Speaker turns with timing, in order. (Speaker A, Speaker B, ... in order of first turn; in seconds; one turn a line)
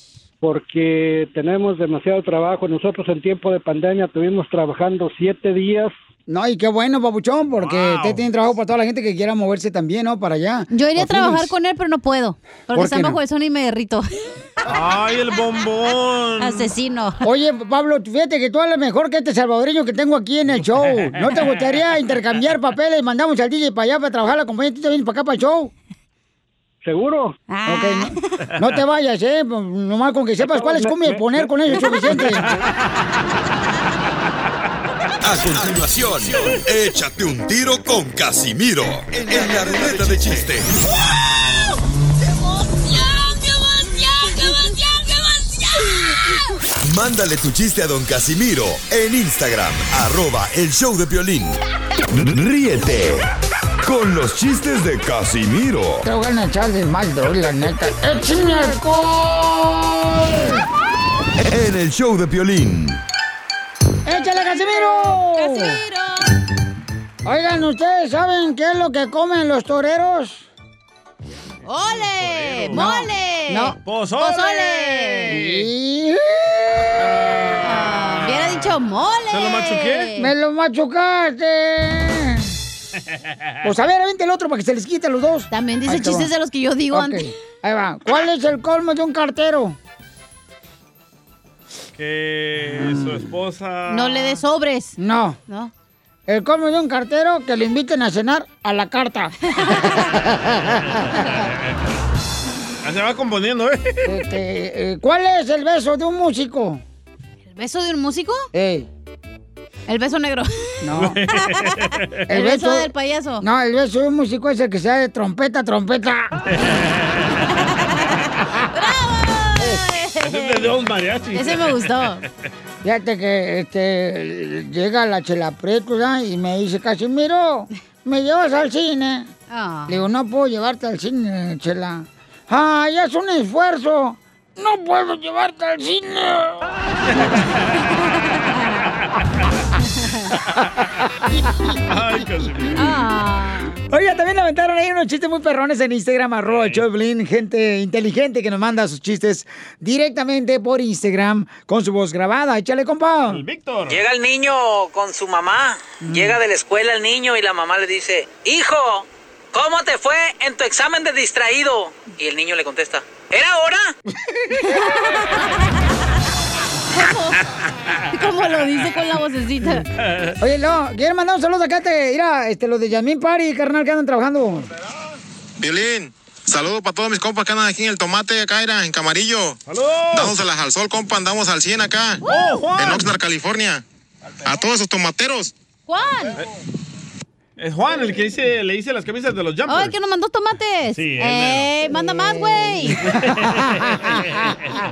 Speaker A: 0.4-5.9
Speaker B: 6.3-11.5
Speaker C: 7.6-8.3
Speaker D: 10.7-14.1
Speaker B: 12.7-13.2
Speaker C: 14.7-16.7
Speaker D: 16.4-17.2
Speaker B: 17.2-25.7
Speaker A: 26.8-27.4
Speaker D: 27.5-28.1
Speaker B: 27.7-32.5
Speaker A: 30.4-31.6
Speaker D: 31.8-32.1
Speaker E: 35.2-40.7
Speaker E: 46.8-51.6
Speaker E: 52.1-53.3
Speaker E: 53.8-56.0
Speaker B: 56.0-60.6
Speaker E: 61.4-63.0
Speaker B: 64.0-65.8
Speaker D: 65.3-66.3
Speaker B: 67.2-70.5
Speaker D: 71.7-75.3
Speaker C: 71.8-72.8
Speaker B: 72.7-73.8
Speaker C: 73.8-75.6
Speaker B: 75.3-77.1
Speaker C: 77.3-78.7
Speaker D: 77.6-80.3
Speaker C: 79.3-80.1
Speaker B: 80.2-82.5
Speaker B: 83.6-86.3
Speaker D: 85.5-87.2
Speaker B: 86.9-89.8
Speaker C: 92.0-94.4
Speaker B: 92.8-93.1
Speaker D: 93.9-94.9
Speaker B: 95.0-95.4
Speaker B: 96.3-101.4
Speaker D: 99.6-100.0
Speaker C: 102.8-104.1
Speaker B: 104.0-106.8
Speaker D: 107.5-108.5
Speaker B: 108.5-108.9
Speaker D: 109.9-113.4
Speaker B: 110.8-111.2
Speaker C: 111.0-112.2
Speaker B: 112.3-112.9
Speaker B: 113.4-116.3
Speaker C: 116.5-117.3
Speaker D: 117.6-120.7
Speaker B: 119.6-119.8
Speaker C: 120.2-121.9
Speaker D: 121.3-122.2
Speaker B: 122.8-129.3
Speaker D: 129.5-130.0
Speaker B: 129.9-136.7
Speaker B: 141.4-141.7
Speaker C: 141.9-142.9
Speaker D: 142.8-143.7
Speaker B: 143.8-153.4
Speaker C: 146.4-146.8
Speaker C: 153.3-154.0
Speaker F: 153.9-163.9
Speaker B: 156.0-156.4
Speaker D: 164.6-165.4
Speaker D: 166.9-167.4
Speaker D: 168.1-169.8
Speaker C: 170.0-170.3
Speaker B: 170.4-174.7
Speaker G: 175.6-179.6
Speaker C: 179.7-180.4
Speaker G: 180.1-182.2
Speaker C: 182.2-183.1
Speaker G: 182.7-183.8
Speaker G: 184.4-185.5
Speaker D: 185.9-186.4
Speaker C: 187.6-189.9
Speaker D: 189.7-193.0
Speaker C: 190.9-191.7
Speaker B: 191.9-194.4
Speaker C: 193.0-194.7